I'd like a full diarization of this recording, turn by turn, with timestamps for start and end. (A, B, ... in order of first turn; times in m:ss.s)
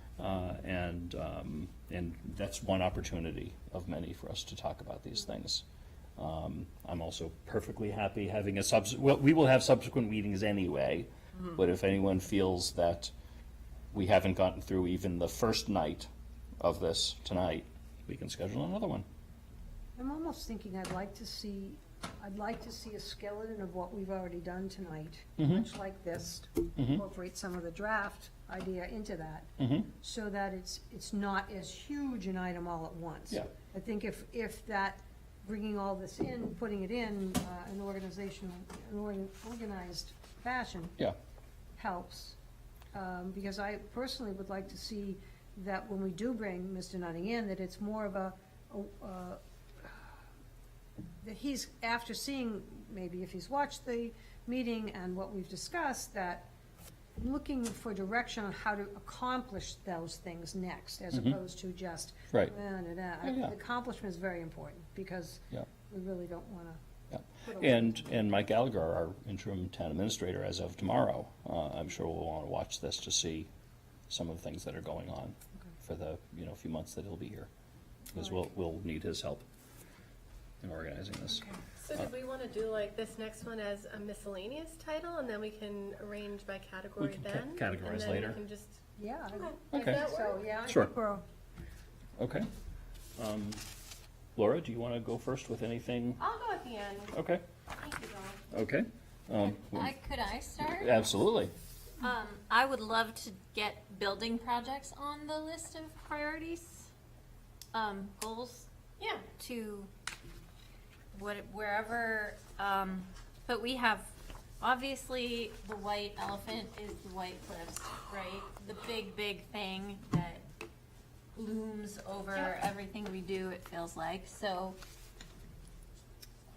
0:00.2-0:05.6 A
0:06.2-0:13.1 A
0:13.9-0:16.1 A
0:16.6-0:19.0 A
0:20.0-0:41.0 B
0:25.4-0:25.6 A
0:26.8-0:27.0 A
0:29.6-0:29.9 A
0:41.8-0:42.4 B
0:42.9-0:50.1 B
0:51.2-0:56.5 B
0:57.2-1:06.8 B
1:01.1-1:01.4 A
1:03.2-1:03.5 A
1:07.1-1:13.5 A
1:07.4-1:08.2 B
1:14.1-1:17.5 A
1:18.1-1:19.4 A
1:20.6-1:21.5 A
1:21.8-1:28.8 C
1:27.0-1:28.4 A
1:29.0-1:31.2 B
1:29.7-1:30.0 A
1:29.7-1:30.4 C
1:30.6-1:30.9 A
1:32.2-1:32.5 A
1:33.2-1:33.6 A
1:34.4-1:36.2 A
1:36.2-1:37.2 C
1:37.1-1:37.4 A
1:37.8-1:38.4 C
1:38.5-1:39.9 A
1:39.4-1:41.0 D
1:40.7-1:41.5 A
1:42.0-1:46.9 D
1:47.7-1:48.7 D
1:49.0-1:49.3 C
1:49.4-1:49.9 D
1:51.1-2:00.5 D
2:01.4-2:04.8 D